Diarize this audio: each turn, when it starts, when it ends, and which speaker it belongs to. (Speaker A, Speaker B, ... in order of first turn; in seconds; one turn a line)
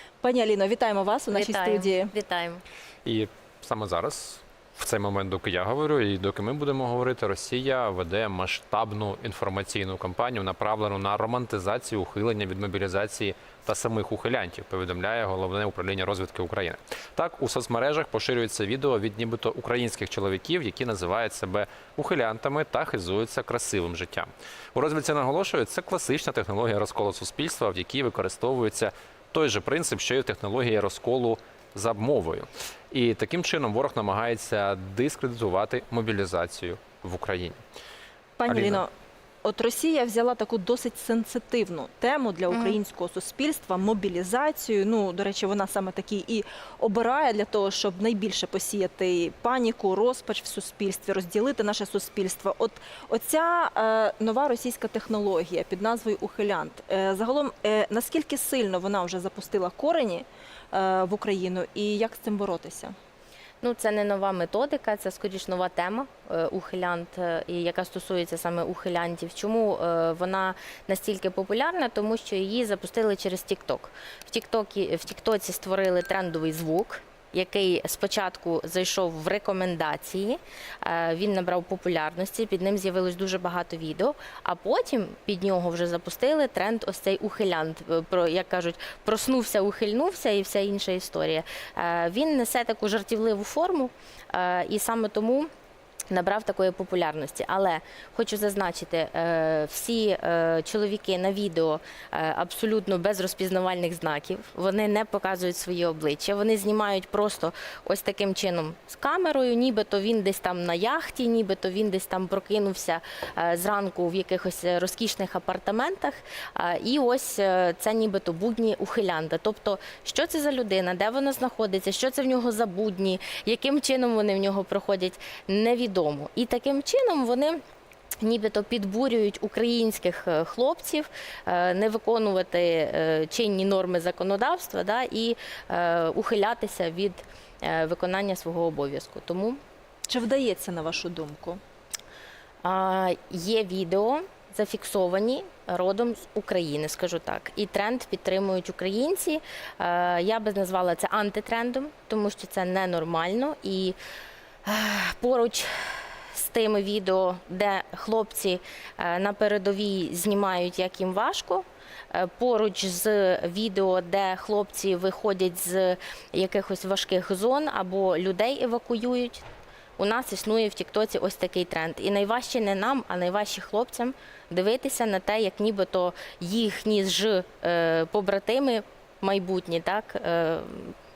Speaker A: 0.2-2.1
Speaker B: 1.3-2.6
Speaker C: 3.0-37.6
Speaker A: 38.4-38.9
Speaker C: 38.5-38.9
Speaker A: 39.4-63.0
Speaker B: 42.5-42.8
Speaker B: 63.6-95.5
Speaker B: 96.1-127.6
Speaker B: 128.2-139.6
Speaker A: 140.1-141.6
Speaker B: 142.6-154.0
Speaker B: 154.7-169.4
Speaker B: 170.0-180.9